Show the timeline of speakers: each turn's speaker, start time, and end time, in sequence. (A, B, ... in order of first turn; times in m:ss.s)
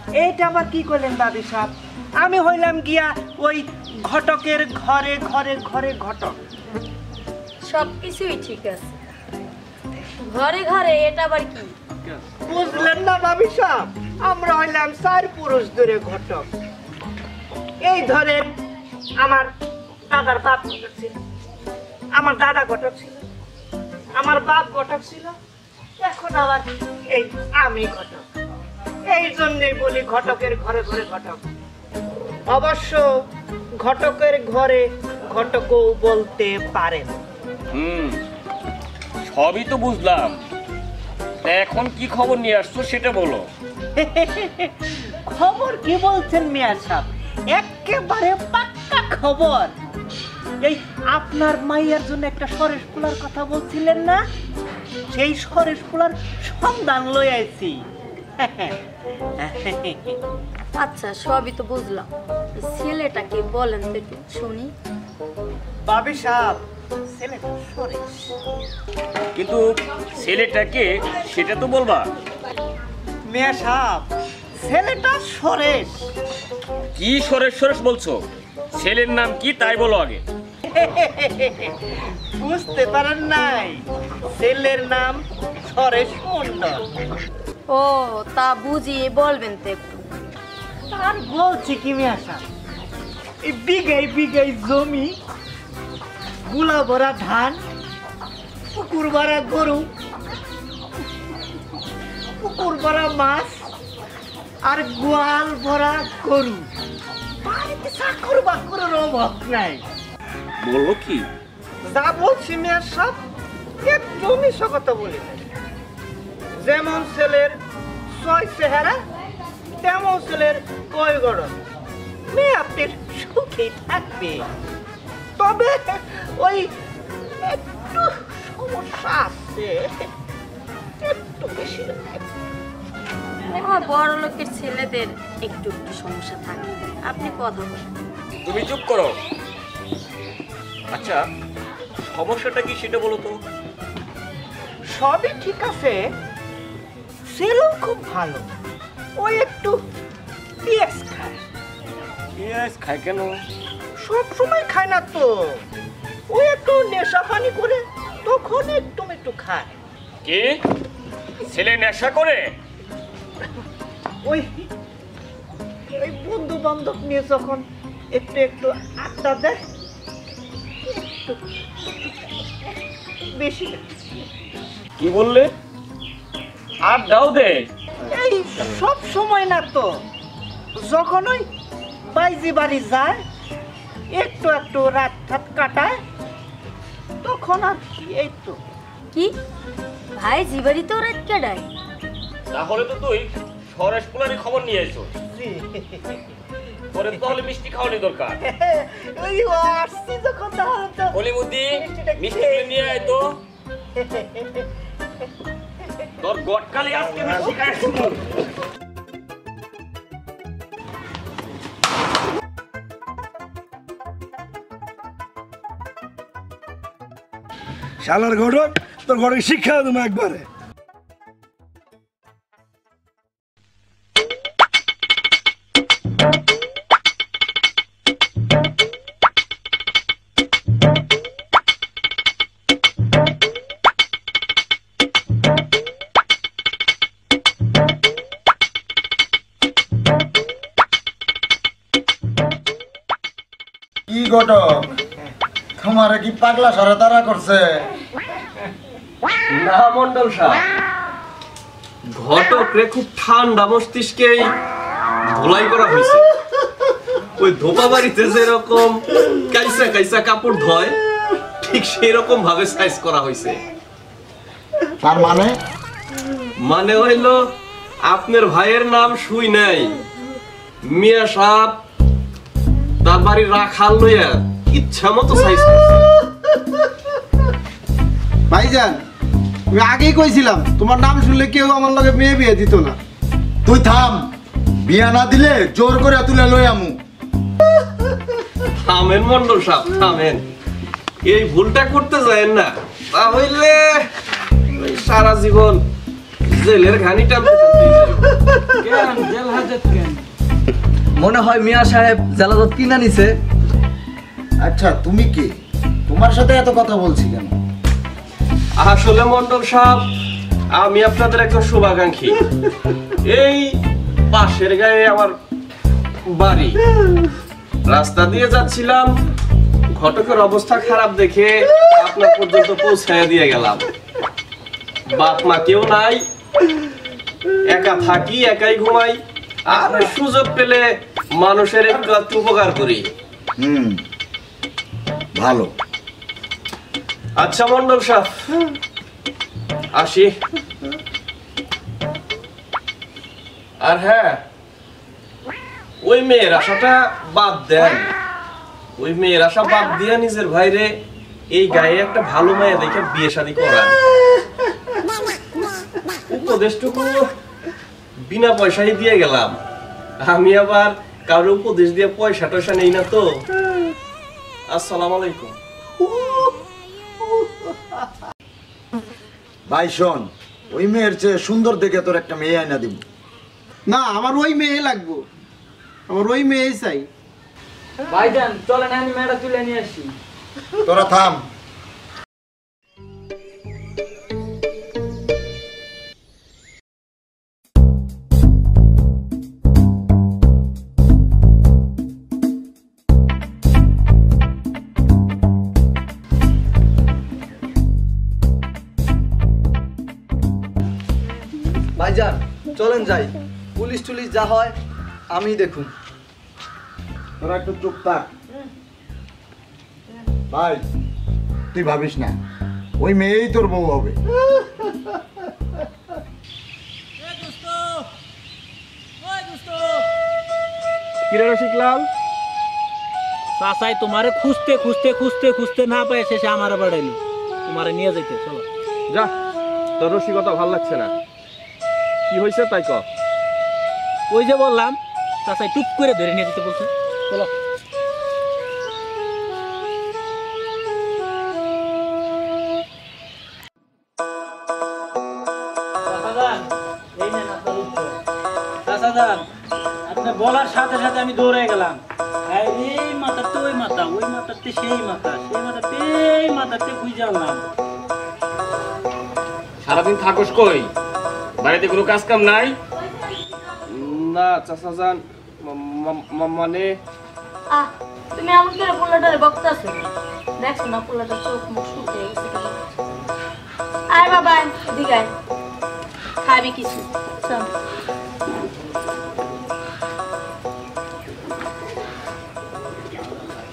0:00.2-0:06.4 A
0:07.6-0:09.0 B
0:10.3-0:11.7 B
0:12.4-0:16.5 A
0:17.8-0:18.5 A
0:19.2-0:19.5 A
0:20.1-0:21.2 A
0:22.2-0:23.2 A
0:24.2-0:25.3 A
0:26.0-0:28.2 A
0:29.1-0:31.4 A
0:32.5-0:33.0 A
0:33.8-0:37.2 A
0:37.7-0:38.2 C
0:39.3-0:40.4 C
0:41.4-0:43.4 C
0:44.0-0:44.7 A
0:45.3-0:49.7 A
0:50.6-0:54.2 A
0:55.1-0:57.8 A
0:58.4-0:58.8 A
0:59.4-1:00.2 A
1:00.8-1:04.7 B
1:05.8-1:06.6 A
1:07.1-1:08.2 A
1:09.4-1:12.1 C
1:13.3-1:14.0 A
1:14.6-1:16.0 A
1:16.9-1:18.2 C
1:18.7-1:20.2 C
1:20.7-1:21.7 A
1:22.4-1:26.8 A
1:27.7-1:30.1 B
1:30.9-1:32.4 A
1:33.4-1:35.1 A
1:36.5-1:37.6 A
1:38.7-1:39.9 A
1:42.4-1:43.6 A
1:44.7-1:46.6 A
1:47.4-1:49.8 A
1:50.6-1:51.2 C
1:51.8-1:53.2 A
1:53.8-1:55.5 A
1:56.6-1:57.5 A
1:58.2-1:59.0 A
1:59.8-2:01.6 A
2:02.3-2:04.4 A
2:05.4-2:06.7 A
2:07.5-2:09.9 A
2:11.1-2:12.2 A
2:13.5-2:17.8 B
2:18.4-2:19.1 C
2:20.9-2:21.2 C
2:22.1-2:23.4 C
2:24.9-2:26.0 A
2:27.3-2:28.5 A
2:29.2-2:29.8 A
2:30.6-2:31.4 A
2:32.4-2:33.4 C
2:34.0-2:35.6 A
2:36.3-2:39.8 A
2:40.2-2:40.6 C
2:41.5-2:42.5 C
2:44.2-2:44.6 A
2:46.0-2:49.6 A
2:50.9-2:51.4 A
2:53.4-2:53.8 A
2:55.0-2:55.5 C
2:56.8-2:57.6 C
2:58.1-2:59.9 A
3:00.8-3:01.4 A
3:02.1-3:03.2 A
3:04.1-3:06.0 A
3:07.2-3:08.6 A
3:10.1-3:11.7 B
3:12.5-3:15.1 C
3:15.3-3:16.0 A
3:16.9-3:18.4 C
3:18.4-3:21.2 A
3:21.1-3:23.4 C
3:21.8-3:23.1 A
3:24.0-3:24.4 A
3:26.2-3:28.2 C
3:38.0-3:40.4 D
4:04.1-4:04.7 E
4:05.8-4:07.6 E
4:09.5-4:10.6 F
4:12.1-4:14.4 F
4:15.3-4:16.2 F
4:17.4-4:21.0 F
4:21.6-4:23.6 F
4:25.0-4:25.5 E
4:26.6-4:27.4 F
4:28.1-4:30.0 F
4:30.9-4:31.8 F
4:33.0-4:36.0 F
4:38.5-4:39.0 G
4:39.7-4:43.0 G
4:43.6-4:44.2 E
4:44.8-4:47.0 E
4:48.8-4:50.4 F
4:51.3-4:53.9 F
4:54.7-4:55.8 F
4:56.5-4:58.3 F
4:58.8-5:00.2 H
5:01.2-5:03.3 H
5:04.6-5:05.5 E
5:06.1-5:07.5 E
5:08.8-5:10.1 F
5:10.7-5:12.4 F
5:13.2-5:13.7 F
5:14.3-5:15.3 F
5:16.3-5:16.8 F
5:17.8-5:19.1 F
5:19.9-5:23.9 F
5:25.1-5:26.2 F
5:27.7-5:30.8 F
5:31.4-5:33.1 F
5:33.6-5:34.0 E
5:35.4-5:35.7 E
5:37.4-5:38.3 F
5:40.0-5:40.3 F
5:43.8-5:44.4 F
5:46.0-5:48.1 F
5:49.0-5:50.9 F
5:51.5-5:54.0 F
5:56.3-5:57.2 F
5:58.3-5:59.6 F
6:00.2-6:03.2 F
6:04.7-6:05.6 F
6:09.7-6:13.0 E
6:13.9-6:15.2 G
6:16.1-6:17.1 G
6:18.1-6:20.1 H
6:20.8-6:21.4 E
6:42.0-6:44.7 H
6:45.3-6:45.9 H
6:47.4-6:48.3 E
6:50.5-6:50.8 E
6:51.7-6:52.3 E
6:53.0-6:54.2 E
6:57.2-6:58.1 I
6:59.2-7:00.0 I
7:01.3-7:02.1 F
7:03.6-7:08.6 I
7:10.0-7:11.1 F
7:12.3-7:13.0 F
7:14.3-7:17.5 I
7:26.0-7:28.2 I
7:28.8-7:29.4 I
7:30.1-7:37.6 I
7:39.8-7:40.9 C
7:41.6-7:42.7 C
7:43.9-7:46.9 F
7:47.7-7:50.1 B
7:50.6-7:52.8 B
7:54.1-7:55.3 B
7:56.4-7:57.7 B